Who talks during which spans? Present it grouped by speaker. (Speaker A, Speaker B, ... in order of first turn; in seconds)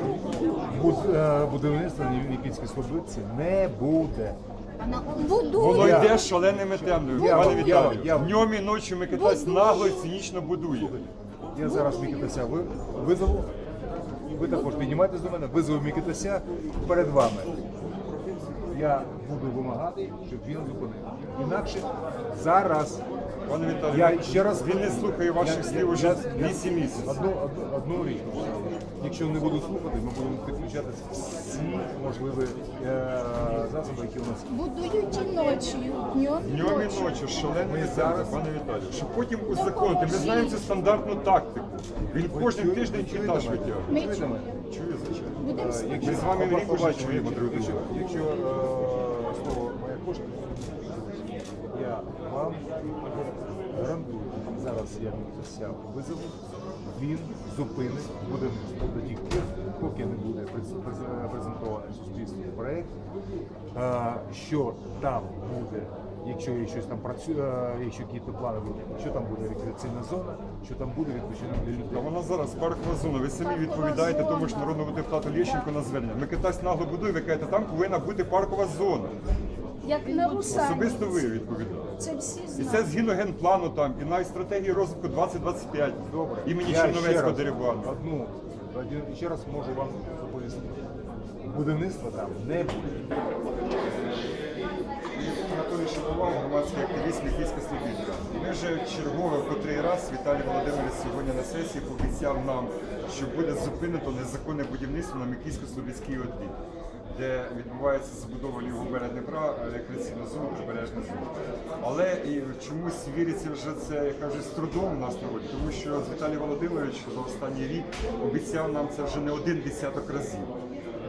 Speaker A: 0.7-4.4, 5.7-8.5, 11.5-13.5, 14.2-17.7, 18.7-23.0, 23.9-34.6, 37.4-38.5, 42.3-44.6, 45.5-52.6, 53.7-62.9, 63.7-72.1, 86.1-90.8, 91.4-93.1
Speaker B: 4.8-6.4, 7.1-7.9, 9.1-10.1, 11.6-12.3, 34.5-37.2, 39.5-40.7, 43.9-44.4, 45.4-46.2, 73.4-75.6, 79.8-81.4, 82.0-82.9
Speaker C: 5.5-11.0, 23.5-27.2, 36.4-44.0, 44.7-47.9, 71.9-79.2, 80.3-81.9, 82.5-87.9, 95.1-106.6, 107.1-120.5